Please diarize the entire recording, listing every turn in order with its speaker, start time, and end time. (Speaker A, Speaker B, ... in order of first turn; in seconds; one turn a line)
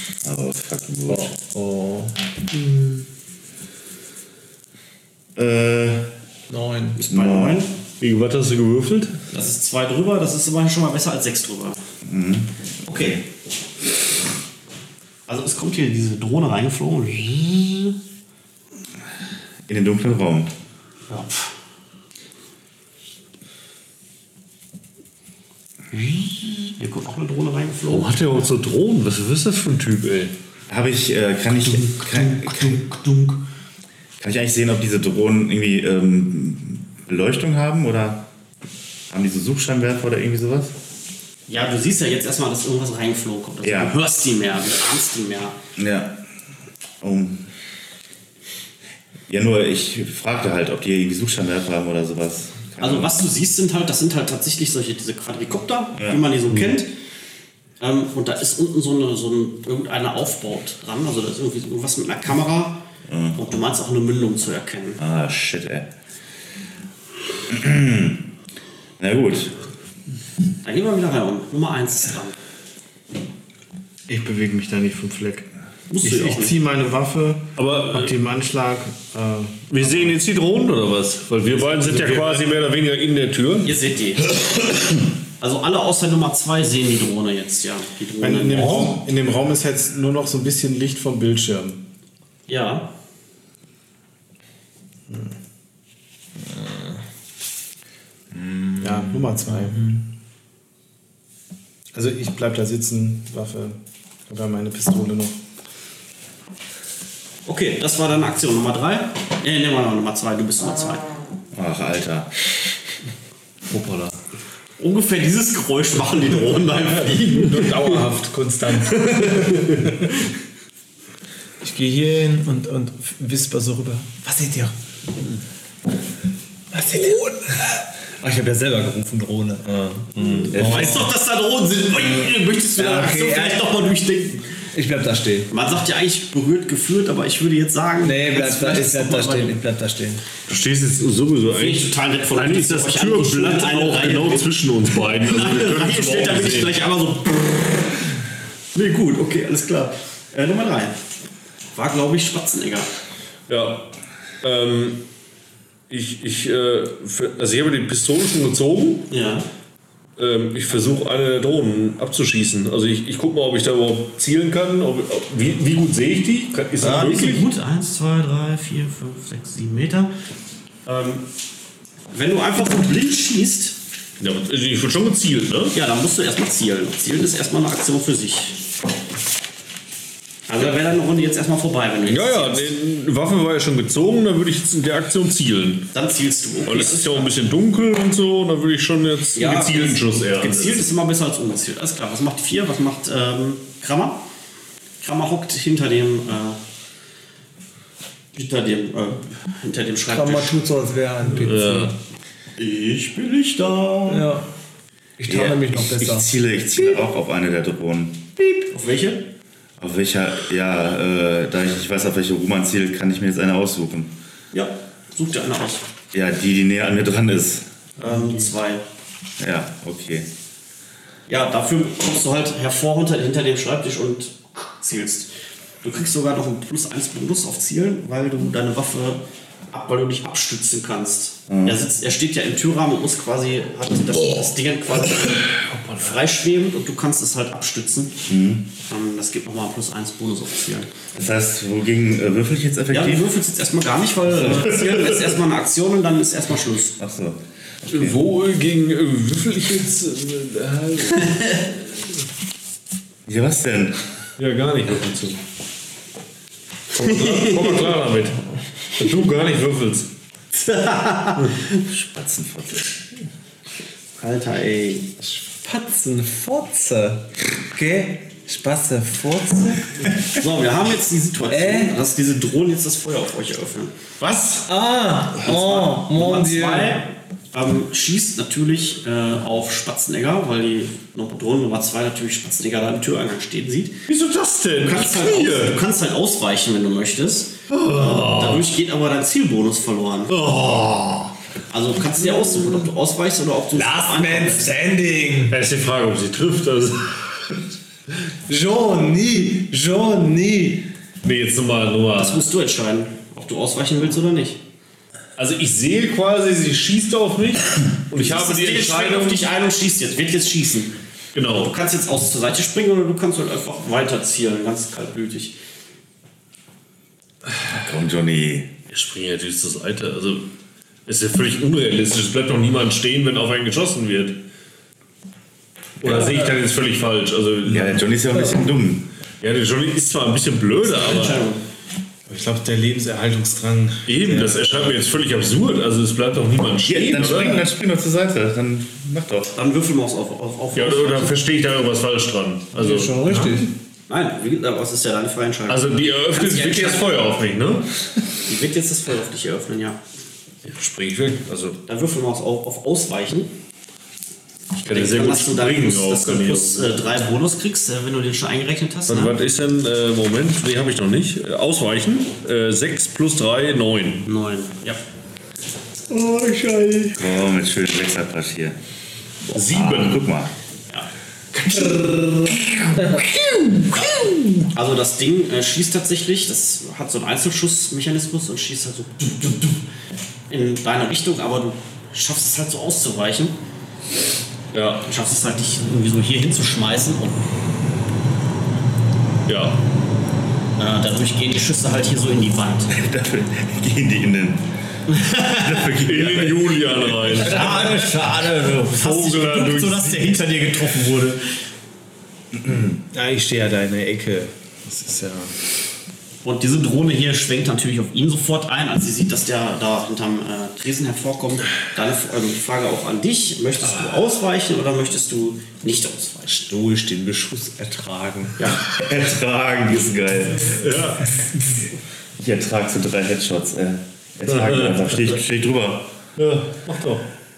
Speaker A: 0.2-1.3
Speaker B: 1.4-2.1
Speaker A: 5.3-6.1
Speaker B: 6.5-7.0
Speaker C: 7.0-7.7
Speaker A: 7.1-7.6
Speaker D: 8.0-9.2
Speaker C: 9.3-11.8
Speaker A: 12.0-13.1
Speaker C: 12.8-13.2
Speaker C: 15.3-17.9
Speaker A: 19.7-20.5
Speaker C: 21.1-21.5
Speaker C: 25.9-28.1
Speaker D: 27.9-30.3
Speaker A: 30.7-32.9
Speaker C: 31.9-33.4
Speaker A: 34.2-38.2
Speaker A: 39.1-40.8
Speaker C: 41.5-45.5
Speaker A: 43.6-44.0
Speaker A: 45.8-46.2
Speaker A: 47.0-47.4
Speaker A: 49.3-53.1
Speaker C: 52.8-56.9
Speaker C: 57.8-62.8
Speaker A: 63.1-63.4
Speaker C: 63.4-65.0
Speaker A: 65.0-65.9
Speaker A: 67.5-68.2
Speaker A: 69.0-69.6
Speaker C: 70.6-72.3
Speaker E: 74.1-75.5
Speaker C: 75.9-76.5
Speaker E: 76.0-80.2
Speaker D: 77.6-78.1
Speaker D: 79.7-83.7
Speaker E: 81.7-82.4
Speaker C: 83.6-84.4
Speaker C: 85.4-89.0
Speaker E: 88.2-91.8
Speaker C: 92.5-92.9
Speaker E: 95.1-95.3
Speaker B: 96.5-96.9
Speaker B: 98.4-99.9
Speaker E: 98.8-100.0
Speaker E: 101.9-103.8
Speaker E: 104.3-105.4
Speaker C: 107.5-111.1
Speaker A: 111.5-112.3
Speaker D: 113.7-114.2
Speaker C: 114.8-117.9
Speaker E: 116.8-120.2
Speaker D: 118.9-119.9
Speaker B: 121.6-124.7
Speaker B: 126.7-131.1
Speaker C: 130.5-134.4
Speaker A: 130.5-130.9
Speaker B: 132.8-133.7
Speaker B: 134.7-135.5
Speaker C: 135.5-139.6
Speaker B: 138.0-140.2
Speaker D: 140.5-146.8
Speaker C: 141.5-148.0
Speaker C: 148.7-151.0
Speaker C: 151.7-152.9
Speaker D: 153.5-153.9
Speaker D: 154.4-155.0
Speaker D: 155.9-159.1
Speaker C: 159.1-159.4
Speaker D: 160.2-167.4
Speaker C: 166.8-170.1
Speaker C: 170.8-171.3
Speaker C: 172.1-173.8
Speaker D: 174.2-175.8
Speaker C: 175.7-178.6
Speaker C: 180.5-182.7
Speaker D: 182.1-185.9
Speaker C: 185.9-187.3
Speaker D: 186.6-190.9
Speaker C: 189.3-194.2
Speaker C: 195.0-196.6
Speaker C: 198.3-200.6
Speaker B: 200.1-201.9
Speaker D: 201.3-201.9
Speaker C: 202.6-204.3
Speaker B: 204.1-204.4
Speaker B: 205.2-206.3
Speaker A: 205.3-208.3
Speaker C: 208.7-209.3
Speaker A: 209.8-214.1
Speaker C: 214.5-215.8
Speaker A: 216.1-217.7
Speaker C: 218.0-218.8
Speaker A: 219.4-220.3
Speaker C: 221.3-225.3
Speaker C: 225.8-238.1
Speaker A: 231.5-231.8
Speaker D: 235.6-236.2
Speaker A: 238.3-238.7
Speaker C: 238.8-240.9
Speaker A: 241.1-243.4
Speaker C: 242.9-247.0
Speaker A: 247.0-248.2
Speaker D: 247.9-251.6
Speaker A: 253.2-254.0
Speaker D: 254.4-255.4
Speaker D: 256.9-260.1
Speaker C: 257.0-257.9
Speaker C: 260.5-261.8
Speaker A: 261.9-262.9
Speaker C: 264.2-265.1
Speaker B: 265.2-270.0
Speaker C: 270.3-274.6
Speaker B: 271.5-272.0
Speaker B: 274.6-277.0
Speaker C: 275.4-284.0
Speaker D: 284.1-285.8
Speaker C: 284.8-290.4
Speaker D: 287.7-288.7
Speaker D: 290.3-291.3
Speaker C: 291.7-294.7
Speaker B: 293.7-295.6
Speaker D: 295.5-297.5
Speaker B: 298.5-300.9
Speaker D: 301.2-302.5
Speaker C: 302.1-304.6
Speaker D: 305.4-309.4
Speaker C: 308.1-310.9
Speaker D: 311.3-311.8
Speaker C: 311.5-315.5
Speaker A: 317.6-318.7
Speaker D: 318.9-320.5
Speaker D: 321.1-324.4
Speaker D: 326.0-328.1
Speaker A: 327.6-329.1
Speaker D: 329.4-331.4
Speaker C: 330.8-331.6
Speaker E: 332.3-334.7
Speaker D: 334.1-337.7
Speaker A: 336.8-339.5
Speaker C: 339.5-341.4
Speaker D: 340.7-343.2
Speaker B: 342.7-343.7
Speaker C: 344.1-347.1
Speaker D: 345.7-347.9
Speaker C: 348.4-350.0
Speaker D: 350.7-351.8
Speaker C: 351.9-353.5
Speaker C: 354.8-359.4
Speaker D: 354.8-357.1
Speaker D: 359.1-364.3
Speaker C: 364.2-365.0
Speaker B: 366.1-367.1
Speaker A: 367.1-368.8
Speaker D: 369.5-370.2
Speaker A: 369.5-370.5
Speaker C: 371.7-372.0
Speaker B: 371.9-372.4
Speaker B: 372.9-374.3
Speaker C: 374.7-379.8
Speaker C: 380.5-383.5
Speaker D: 384.7-385.1
Speaker C: 385.0-387.4
Speaker D: 389.4-389.8
Speaker C: 390.8-392.9
Speaker A: 392.9-394.6
Speaker C: 395.1-395.9
Speaker A: 395.5-396.9
Speaker D: 396.0-398.1
Speaker C: 397.3-401.4
Speaker D: 398.8-400.3
Speaker E: 402.9-405.6
Speaker C: 406.4-416.6
Speaker B: 416.4-418.6
Speaker C: 418.6-418.8
Speaker A: 418.8-420.8
Speaker D: 420.7-421.3
Speaker A: 422.4-426.1
Speaker D: 424.5-425.1
Speaker D: 426.4-427.2